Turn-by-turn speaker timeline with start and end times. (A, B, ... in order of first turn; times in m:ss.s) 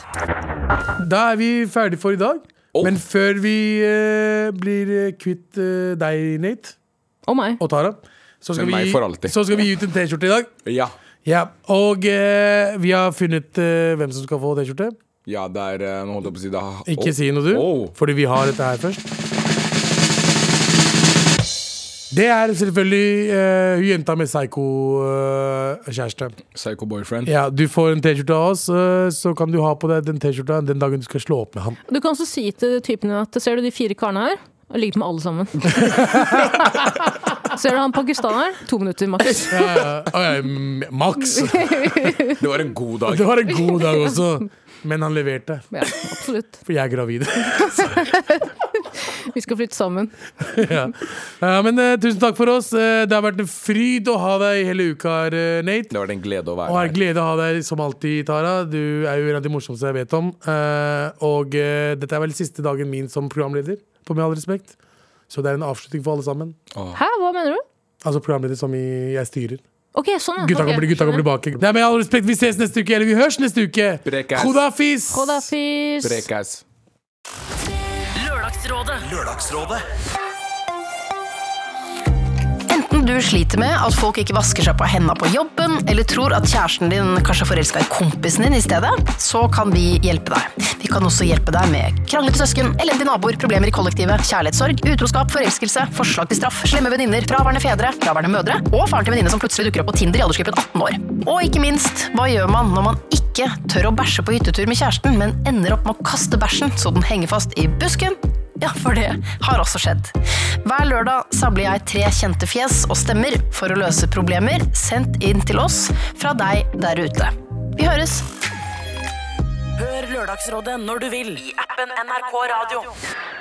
0:01.0-0:06.8 A
0:07.3-0:07.6 B
0:07.6-0:10.5 A
0:08.6-0:09.4 C
0:10.6-0:10.9 C
0:11.2-0:14.9 A
0:15.2-0:17.9 C
0:16.8-0:19.0 A
0:22.1-0:26.4 A
0:26.5-0:27.3 C
0:27.2-0:31.8 A
0:31.9-0:36.8 B
0:35.7-0:36.7 A
0:37.4-0:39.8 B
0:39.5-0:42.1 A
0:41.2-0:42.4 B
0:42.4-0:43.3 C
0:43.1-0:45.7 A
0:45.7-0:46.6 B
0:46.6-0:48.1 A
0:47.5-0:50.1 B
0:50.4-0:55.9 A
0:55.9-0:56.9 C
0:56.6-1:04.8 A
1:05.3-1:06.6 A
1:06.7-1:07.0 C
1:06.9-1:07.6 B
1:08.0-1:09.6 A
1:09.9-1:11.2 B
1:10.4-1:15.4 A
1:14.0-1:14.6 C
1:15.1-1:16.3 B
1:16.0-1:16.6 C
1:18.2-1:19.8 D
1:22.7-1:58.3 E
1:59.8-2:02.9 D